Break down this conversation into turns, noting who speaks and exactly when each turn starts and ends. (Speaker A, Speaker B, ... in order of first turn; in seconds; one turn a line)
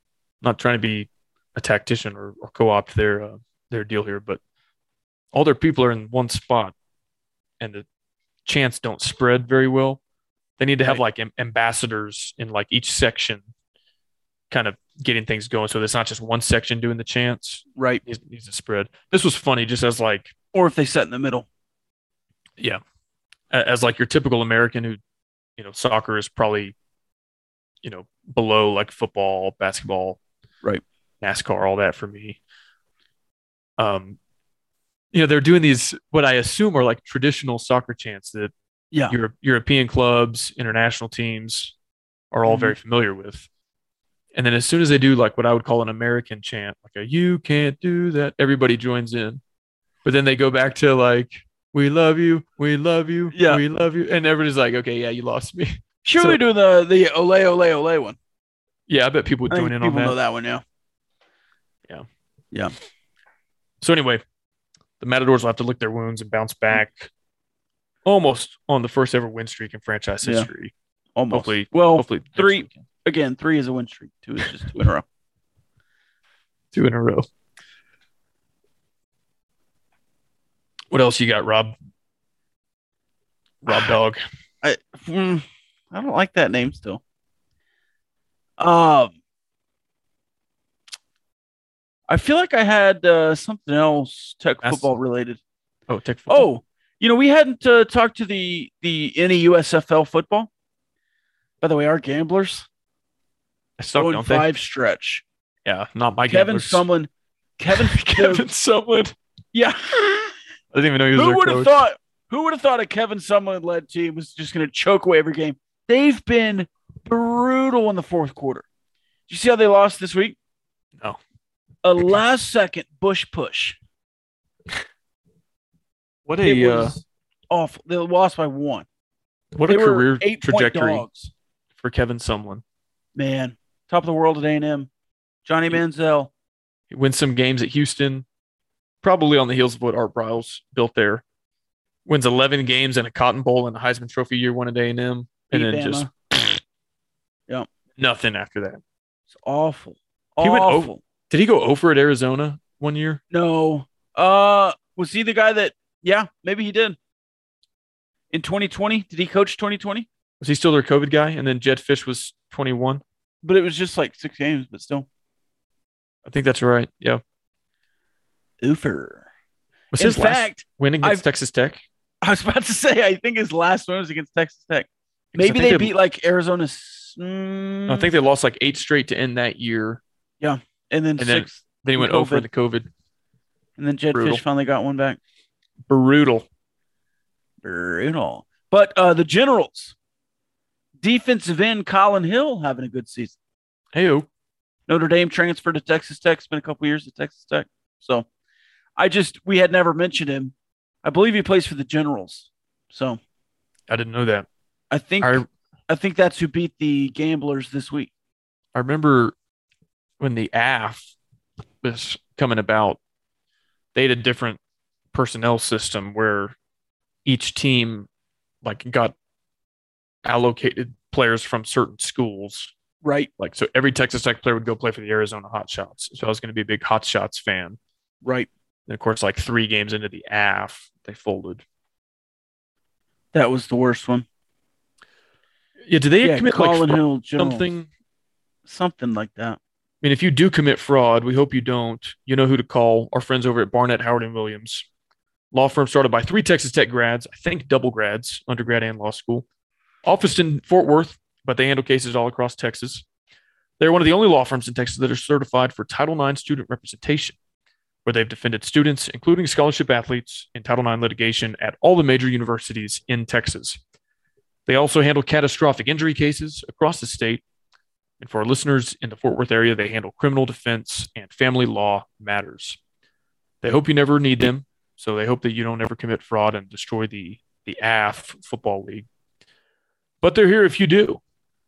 Speaker A: 0.4-4.4
Speaker A: 5.3-6.7
Speaker A: 7.6-7.8
Speaker A: 8.4-10.0
Speaker A: 10.6-13.4
Speaker A: 14.5-20.3
Speaker B: 17.8-18.0
Speaker B: 20.5-21.5
Speaker A: 23.5-25.0
Speaker A: 25.6-26.7
Speaker A: 27.8-30.2
Speaker A: 31.2-32.4
Speaker A: 33.8-34.2
Speaker A: 35.1-38.5
Speaker A: 39.1-41.7
Speaker A: 42.3-43.5
Speaker B: 42.5-42.7
Speaker A: 44.3-49.4
Speaker A: 50.0-56.4
Speaker B: 53.3-53.6
Speaker B: 56.0-58.2
Speaker A: 58.9-60.2
Speaker B: 59.5-60.6
Speaker A: 63.8-64.2
Speaker A: 65.0-67.1
Speaker A: 68.0-70.7
Speaker B: 70.2-70.5
Speaker B: 71.2-75.0
Speaker A: 71.3-72.8
Speaker A: 76.7-77.3
Speaker A: 80.9-81.8
Speaker A: 83.6-84.2
Speaker B: 84.6-87.0
Speaker B: 88.6-89.1
Speaker B: 92.1-95.4
Speaker A: 95.9-96.5
Speaker B: 96.3-100.5
Speaker B: 101.6-102.7
Speaker A: 103.8-104.5
Speaker B: 104.0-105.2
Speaker A: 105.7-106.8
Speaker B: 106.3-108.4
Speaker A: 107.7-109.1
Speaker B: 109.5-110.3
Speaker A: 110.7-111.8
Speaker B: 111.1-118.6
Speaker B: 119.3-120.3
Speaker B: 121.8-123.8
Speaker A: 126.2-127.0
Speaker B: 126.4-128.8
Speaker A: 129.5-131.1
Speaker B: 129.7-131.3
Speaker A: 131.8-132.6
Speaker B: 133.2-134.9
Speaker B: 135.4-136.3
Speaker A: 136.9-138.2
Speaker A: 139.0-141.2
Speaker A: 142.1-146.6
Speaker B: 145.5-146.1
Speaker A: 148.0-148.8
Speaker B: 149.3-151.0
Speaker A: 150.4-153.2
Speaker B: 153.3-157.0
Speaker B: 158.3-160.1
Speaker A: 160.4-163.0
Speaker B: 163.4-165.1
Speaker A: 166.2-167.2
Speaker B: 168.6-169.3
Speaker A: 169.9-171.8
Speaker B: 169.9-171.2
Speaker B: 172.2-178.1
Speaker A: 175.3-175.9
Speaker A: 177.9-180.0
Speaker B: 180.4-182.4
Speaker A: 181.2-182.9
Speaker B: 183.8-185.2
Speaker A: 184.1-184.4
Speaker A: 185.9-186.4
Speaker B: 187.6-189.9
Speaker B: 191.0-193.3
Speaker A: 193.9-194.3
Speaker B: 194.9-198.2
Speaker B: 199.0-200.5
Speaker B: 201.0-203.2
Speaker A: 203.9-204.5
Speaker B: 204.9-208.1
Speaker A: 205.2-205.5
Speaker A: 208.7-209.3
Speaker A: 210.2-211.1
Speaker A: 211.8-213.0
Speaker A: 213.9-214.6
Speaker A: 215.1-216.5
Speaker A: 217.2-218.1
Speaker A: 218.6-219.1
Speaker A: 220.2-222.7
Speaker B: 223.0-223.3
Speaker A: 223.4-227.8
Speaker B: 228.2-228.5
Speaker A: 228.9-231.6
Speaker B: 233.3-234.2
Speaker A: 235.9-237.9
Speaker B: 236.2-237.7
Speaker B: 238.7-239.6
Speaker A: 240.0-244.8
Speaker A: 245.5-249.4
Speaker A: 250.0-253.0
Speaker A: 253.8-257.4
Speaker A: 258.0-263.8
Speaker A: 264.7-267.4
Speaker A: 268.2-272.8
Speaker A: 273.6-279.1
Speaker A: 280.2-281.2